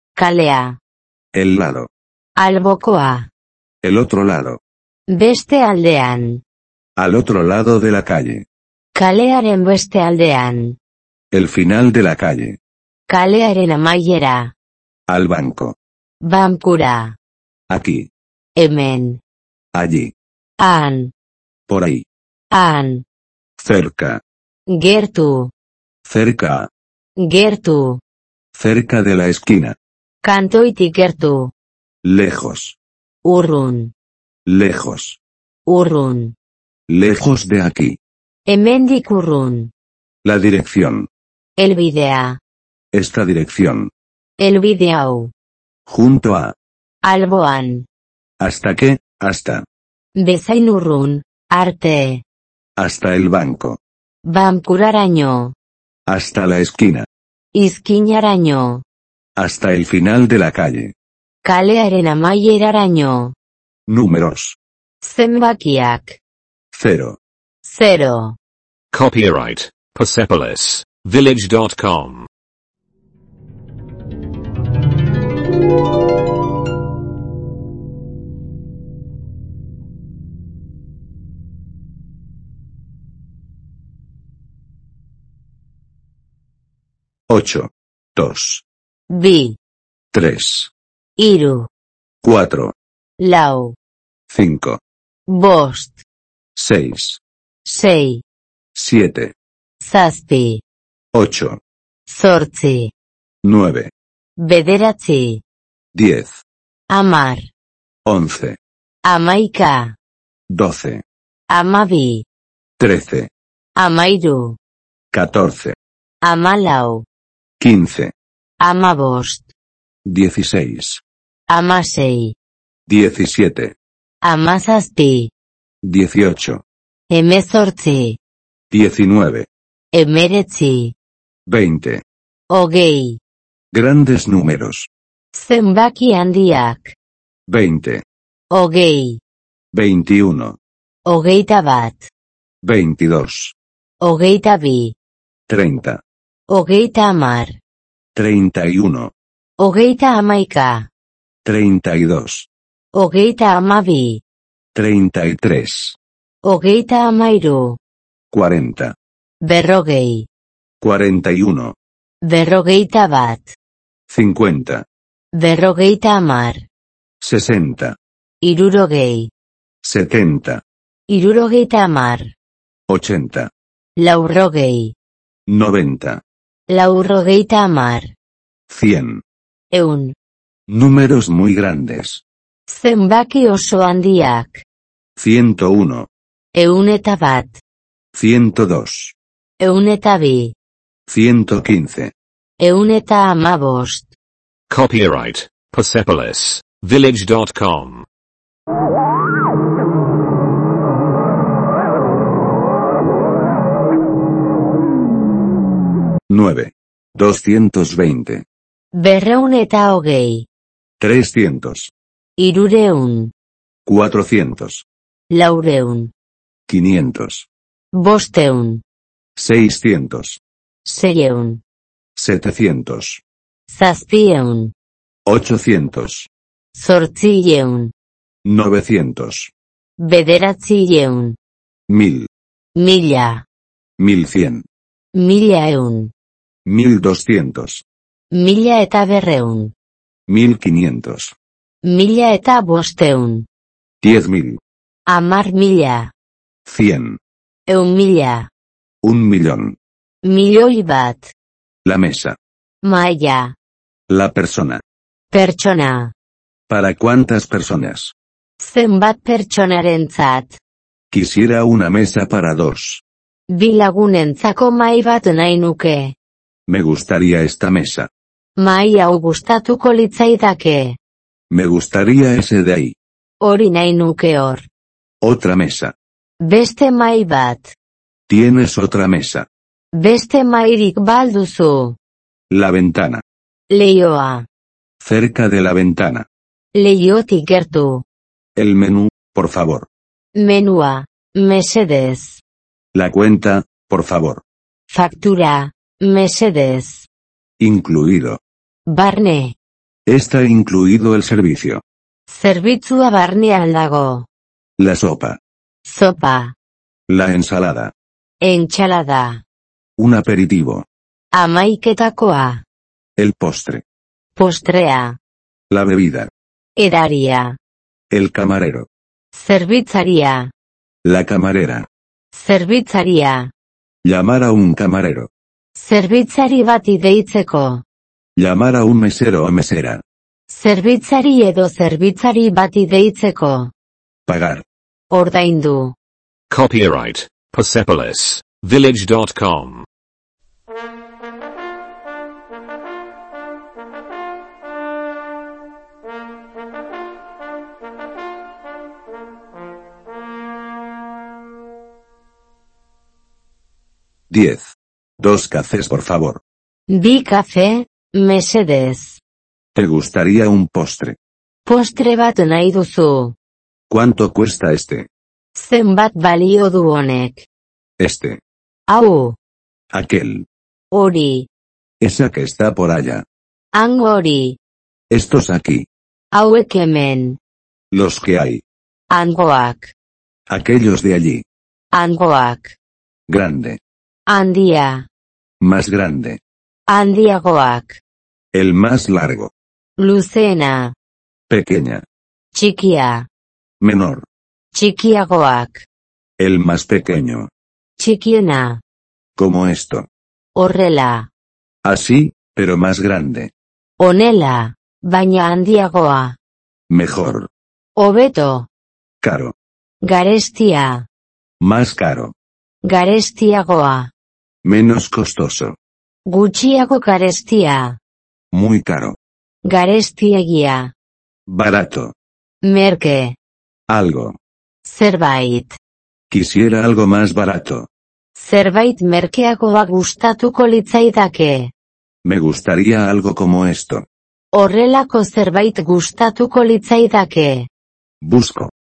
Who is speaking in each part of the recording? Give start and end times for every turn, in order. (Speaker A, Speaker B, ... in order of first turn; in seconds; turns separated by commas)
Speaker A: 0.2-0.8, Speaker B: 1.3-1.9, Speaker A: 2.4-3.3, Speaker B: 3.8-4.6, Speaker A: 5.1-6.4, Speaker B: 7.0-8.5, Speaker A: 8.9-10.8, Speaker B: 11.3-12.6, Speaker A: 13.1-14.5, Speaker B: 15.1-15.8, Speaker A: 16.2-17.2, Speaker B: 17.7-18.1, Speaker A: 18.6-19.2, Speaker B: 19.7-20.1, Speaker A: 20.6-21.1, Speaker B: 21.7-22.1, Speaker A: 22.5-23.1, Speaker B: 23.6-24.2, Speaker A: 24.7-25.5, Speaker B: 26.1-26.7, Speaker A: 27.2-28.0, Speaker B: 28.5-29.8, Speaker A: 30.2-31.5, Speaker B: 32.0-32.8, Speaker A: 33.2-33.9, Speaker B: 34.5-35.2, Speaker A: 35.7-36.4, Speaker B: 36.9-38.0, Speaker A: 38.5-39.7, Speaker B: 40.2-41.1, Speaker A: 41.6-42.4, Speaker B: 42.9-43.9, Speaker A: 44.4-45.3, Speaker B: 45.9-46.5, Speaker A: 47.0-47.9, Speaker B: 48.4-49.6, Speaker A: 50.2-52.2, Speaker B: 52.8-53.8, Speaker A: 54.3-55.5, Speaker B: 56.1-57.1, Speaker A: 57.5-58.8, Speaker B: 59.4-60.9, Speaker A: 61.4-63.4, Speaker B: 63.9-64.6, Speaker A: 65.0-66.2, Speaker B: 66.7-67.2, Speaker A: 67.6-68.4, Speaker C: 68.9-72.3, Speaker B: 87.3-88.6, Speaker A: 89.1-89.6, Speaker B: 90.1-90.7, Speaker A: 91.2-91.7, Speaker B: 92.2-92.8, Speaker A: 93.2-93.8, Speaker B: 94.3-94.8, Speaker A: 95.3-96.0, Speaker B: 96.5-97.2, Speaker A: 97.7-98.2, Speaker B: 98.8-99.3, Speaker A: 99.8-100.6, Speaker B: 101.1-101.6, Speaker A: 102.1-102.9, Speaker B: 103.4-103.9, Speaker A: 104.4-105.4, Speaker B: 106.0-106.4, Speaker A: 106.9-107.5, Speaker B: 108.1-108.6, Speaker A: 109.0-110.0, Speaker B: 110.5-111.0, Speaker A: 111.5-112.2, Speaker B: 112.8-113.3, Speaker A: 113.8-114.6, Speaker B: 115.1-115.8, Speaker A: 116.2-117.1, Speaker B: 117.6-118.1, Speaker A: 118.6-119.5, Speaker B: 120.0-121.0, Speaker A: 121.5-122.3, Speaker B: 122.9-123.8, Speaker A: 124.2-125.3, Speaker B: 125.8-126.6, Speaker A: 127.1-128.2, Speaker B: 128.7-129.5, Speaker A: 129.9-130.9, Speaker B: 131.5-132.0, Speaker A: 132.5-133.2, Speaker B: 133.7-134.9, Speaker A: 135.3-136.9, Speaker B: 137.5-138.1, Speaker A: 138.5-139.2, Speaker B: 139.7-140.6, Speaker A: 141.1-142.1, Speaker B: 142.6-143.6, Speaker A: 144.0-144.9, Speaker B: 145.5-146.0, Speaker A: 146.5-147.6, Speaker B: 148.2-149.1, Speaker A: 149.6-150.9, Speaker B: 151.4-152.5, Speaker A: 152.9-154.2, Speaker B: 154.8-156.0, Speaker A: 156.4-157.8, Speaker B: 158.3-158.9, Speaker A: 159.4-160.3, Speaker B: 160.8-161.8, Speaker A: 162.2-163.6, Speaker B: 164.1-164.8, Speaker A: 165.3-166.6, Speaker B: 167.2-168.0, Speaker A: 168.4-169.3, Speaker B: 169.8-170.6, Speaker A: 171.1-172.3, Speaker B: 172.9-173.5, Speaker A: 174.0-174.9, Speaker B: 175.5-176.2, Speaker A: 176.7-178.1, Speaker B: 178.7-179.2, Speaker A: 179.7-180.2, Speaker B: 180.7-182.2, Speaker A: 182.7-184.6, Speaker B: 185.2-186.1, Speaker A: 186.6-187.6, Speaker B: 188.1-189.2, Speaker A: 189.6-190.5, Speaker B: 191.1-192.1, Speaker A: 192.6-194.1, Speaker C: 194.7-198.1, Speaker B: 206.3-208.4, Speaker A: 208.9-210.5, Speaker B: 211.0-211.9, Speaker A: 212.4-213.3, Speaker B: 213.9-214.9, Speaker A: 215.3-216.1, Speaker B: 216.7-217.5, Speaker A: 217.9-218.8, Speaker B: 219.4-220.4, Speaker A: 220.8-221.6, Speaker B: 222.2-223.2, Speaker A: 223.7-224.7, Speaker B: 225.3-226.3, Speaker A: 226.8-227.9, Speaker B: 228.4-229.5, Speaker A: 230.0-231.4, Speaker B: 231.9-232.3, Speaker A: 232.8-233.5, Speaker B: 234.0-234.7, Speaker A: 235.2-236.1, Speaker B: 236.7-237.8, Speaker A: 238.3-239.7, Speaker B: 240.3-241.3, Speaker A: 241.8-243.5, Speaker B: 244.0-244.6, Speaker A: 245.1-246.1, Speaker B: 246.7-247.2, Speaker A: 247.7-248.5, Speaker B: 249.0-249.8, Speaker A: 250.2-251.3, Speaker B: 251.8-252.4, Speaker A: 252.8-253.6, Speaker B: 254.1-254.8, Speaker A: 255.3-256.1, Speaker B: 256.7-258.1, Speaker A: 258.6-260.6, Speaker B: 261.1-263.0, Speaker A: 263.5-266.1, Speaker B: 266.7-268.1, Speaker A: 268.6-271.0, Speaker B: 271.5-272.9, Speaker A: 273.4-274.7, Speaker B: 275.2-275.9, Speaker A: 276.4-277.7, Speaker B: 278.3-279.5, Speaker A: 280.0-282.0, Speaker B: 282.5-283.2, Speaker A: 283.7-284.5, Speaker B: 285.0-286.3, Speaker A: 286.7-288.1, Speaker B: 288.6-289.9, Speaker A: 290.4-292.4, Speaker B: 292.9-294.4, Speaker A: 294.9-297.1, Speaker B: 297.6-298.4, Speaker A: 298.9-299.6, Speaker B: 300.1-301.8, Speaker A: 302.3-304.3, Speaker B: 304.8-305.4, Speaker A: 305.9-306.6, Speaker B: 307.1-307.9, Speaker A: 308.4-309.4, Speaker B: 310.0-310.9, Speaker A: 311.3-312.6, Speaker B: 313.2-313.8, Speaker A: 314.4-315.2, Speaker B: 315.7-316.3, Speaker A: 316.8-317.6, Speaker B: 318.1-318.9, Speaker A: 319.3-320.5, Speaker B: 321.1-321.9, Speaker A: 322.3-323.5, Speaker B: 324.0-325.3, Speaker A: 325.8-327.8, Speaker B: 328.4-330.0, Speaker A: 330.5-333.7, Speaker B: 334.3-334.6, Speaker A: 335.1-336.0, Speaker C: 336.5-339.9, Speaker B: 354.3-356.4, Speaker A: 356.9-359.2, Speaker B: 359.8-361.2, Speaker A: 361.7-363.4, Speaker B: 363.9-365.1, Speaker A: 365.6-367.5, Speaker B: 368.0-368.4, Speaker A: 368.9-369.4, Speaker B: 369.9-370.5, Speaker A: 370.9-371.5, Speaker B: 372.0-373.2, Speaker A: 373.7-374.6, Speaker B: 375.1-375.9, Speaker A: 376.3-377.4, Speaker B: 377.9-378.6, Speaker A: 379.1-379.9, Speaker B: 380.5-381.4, Speaker A: 381.9-382.8, Speaker B: 383.3-383.8, Speaker A: 384.3-385.1, Speaker B: 385.6-386.4, Speaker A: 386.9-388.0, Speaker B: 388.5-389.5, Speaker A: 390.0-390.9, Speaker B: 391.5-392.0, Speaker A: 392.5-393.3, Speaker B: 393.8-394.3, Speaker A: 394.7-395.9, Speaker B: 396.4-397.5, Speaker A: 398.0-398.8, Speaker B: 399.4-400.1, Speaker A: 400.6-401.3, Speaker B: 401.8-403.5, Speaker A: 404.0-406.4, Speaker B: 406.9-407.5, Speaker A: 408.0-408.7, Speaker B: 409.2-409.6, Speaker A: 410.0-411.1, Speaker B: 411.6-412.3, Speaker A: 412.8-414.1, Speaker B: 414.6-415.8, Speaker A: 416.3-418.0, Speaker B: 418.5-419.2, Speaker A: 419.6-420.9, Speaker B: 421.5-422.1, Speaker A: 422.6-423.4, Speaker B: 423.9-424.4, Speaker A: 424.8-425.8, Speaker B: 426.3-427.9, Speaker A: 428.4-431.7, Speaker B: 432.2-434.1, Speaker A: 434.5-437.7, Speaker B: 438.2-438.7